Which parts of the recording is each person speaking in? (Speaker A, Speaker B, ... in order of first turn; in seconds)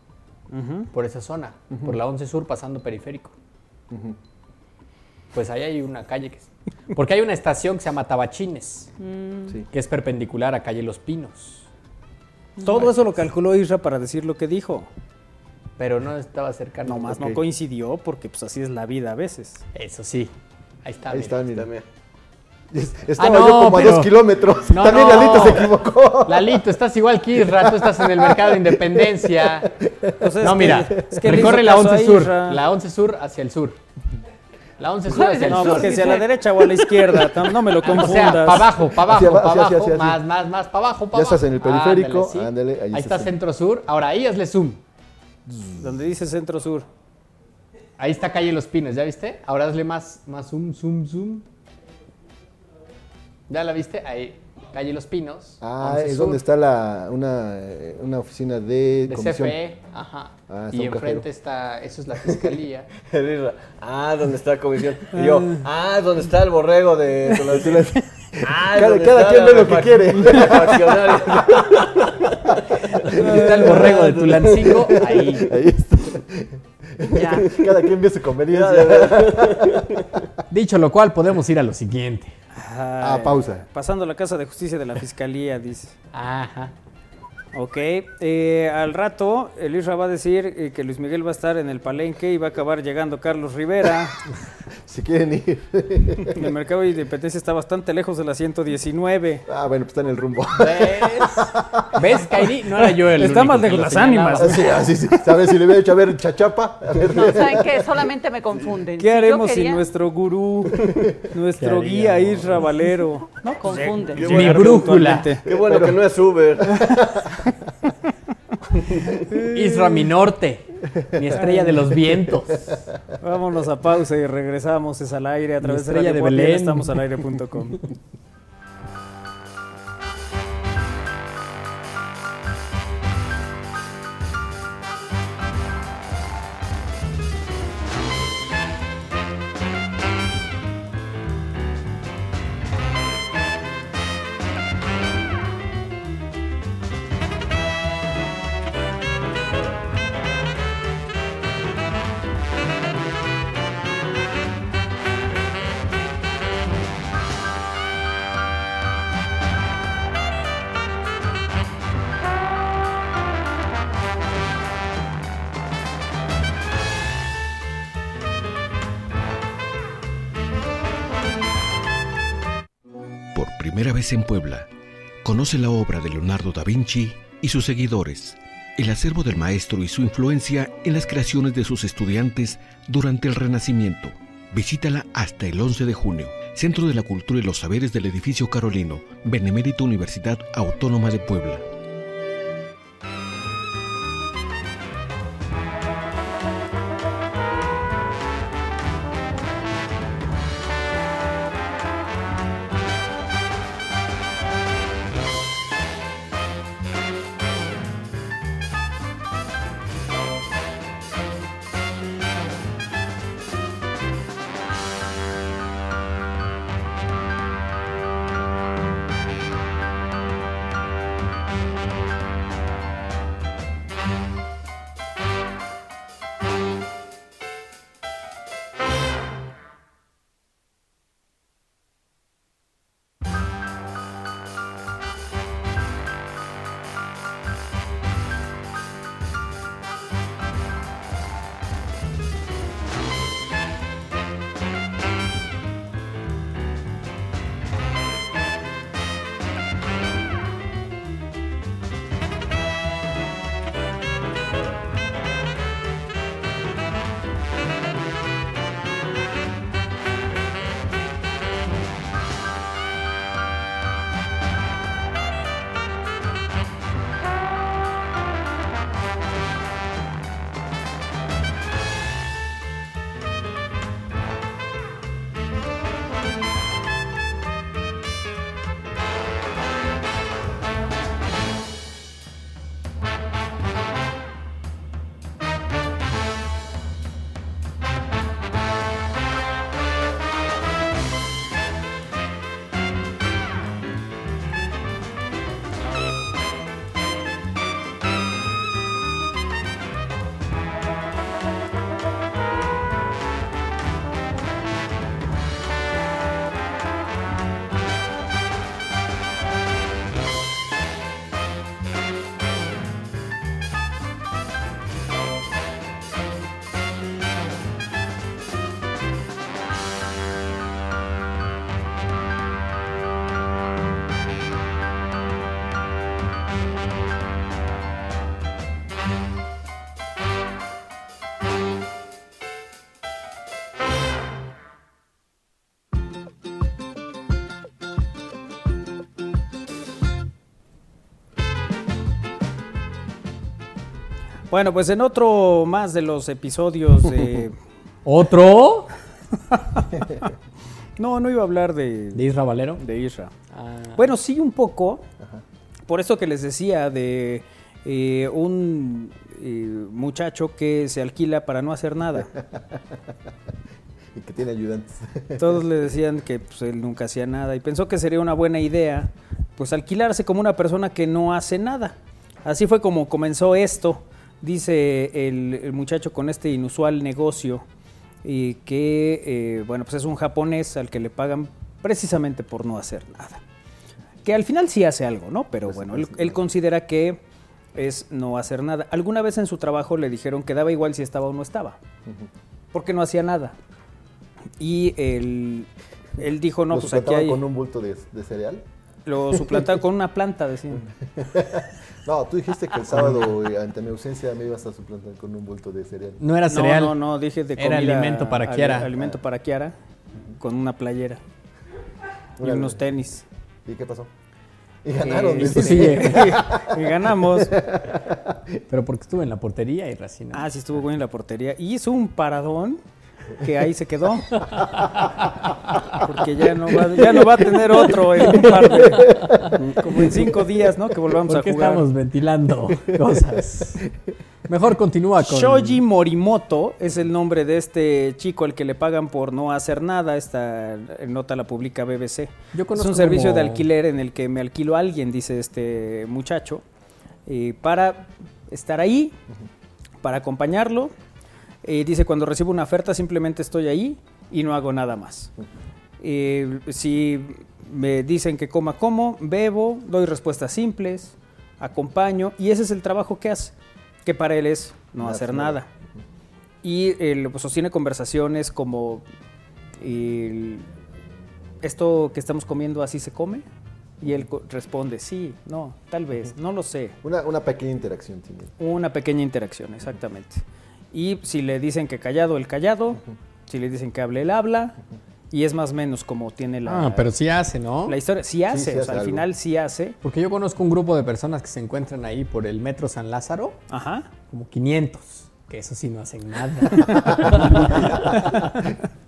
Speaker A: 0.5-0.9, 12.6-14.9, 16.9-19.7, 30.2-32.6, 35.4-38.7, 45.8-46.9, 73.2-73.5, 82.5-86.0, 87.5-94.2, 96.2-99.5, 102.8-104.7, 109.0-115.5, 119.3-120.1, 121.4-121.7, 123.2-127.8, 344.5-347.6, 349.5-350.3, 351.0-352.2, 352.8-353.3, 354.0-355.1, 355.9-362.3, 365.4-377.6, 378.2-383.4, 384.2-387.2, 387.8-391.8, 392.7-393.6, 394.6-397.4, 399.1-400.8, 406.5-409.7, 410.4-411.2, 412.4-413.2, 415.0-417.6, 420.3-422.8, 423.4-424.4, 425.9-431.8, 435.2-446.6, 447.3-449.2, 450.0-450.9, 451.6-455.3, 456.0-465.7, 466.6-469.1, 469.8-470.7, 471.6-473.4, 474.0-477.0, 478.6-484.8, 485.3-487.1, 487.9-490.0, 493.7-494.1, 498.1-498.6
Speaker B: 0.9-3.3, 5.3-8.9, 9.7-11.7, 15.8-17.4, 19.8-20.3, 20.8-21.4, 23.2-29.7, 30.4-33.8, 34.8-36.3, 37.1-44.8, 48.0-51.4, 53.5-56.4, 59.1-62.9, 73.2-75.5, 80.5-82.3, 86.1-86.7, 100.6-104.7, 111.6-112.7, 114.2-115.4, 119.5-122.8, 125.6-127.1, 348.1-348.9, 352.1-352.8, 353.5-354.0, 406.2-407.0, 407.6-408.9, 415.3-416.4, 418.7-420.4, 424.4-426.0, 426.9-430.1, 431.2-433.8, 434.5-435.8, 442.5-443.7, 486.6-488.0, 490.0-493.6, 494.3-498.5
Speaker C: 1.7-2.0, 3.9-4.2, 17.1-17.4, 21.1-21.7, 22.7-26.6, 27.5-30.1, 38.9-40.2, 41.1-43.3, 45.5-45.8, 55.6-59.6, 60.5-61.3, 67.5-71.7, 73.1-80.1, 83.0-83.7, 94.8-96.4, 99.5-102.0, 104.4-107.8, 115.5-116.1, 122.5-122.8, 362.2-363.3, 364.1-365.6, 385.7-386.4, 396.7-398.6, 400.7-406.2, 412.4-412.8, 413.7-414.1, 414.9-416.8, 417.4-418.4, 428.8-429.6, 465.0-466.0, 477.0-478.5, 488.5-489.3, 497.1-498.7
Speaker D: 9.0-9.6, 35.2-36.1, 107.1-109.8, 113.5-114.4
Speaker E: 21.5-21.8, 63.0-67.9, 68.4-74.8, 78.5-80.1, 114.2-114.8, 115.4-117.2, 118.8-119.2
Speaker F: 173.3-174.7, 175.2-191.7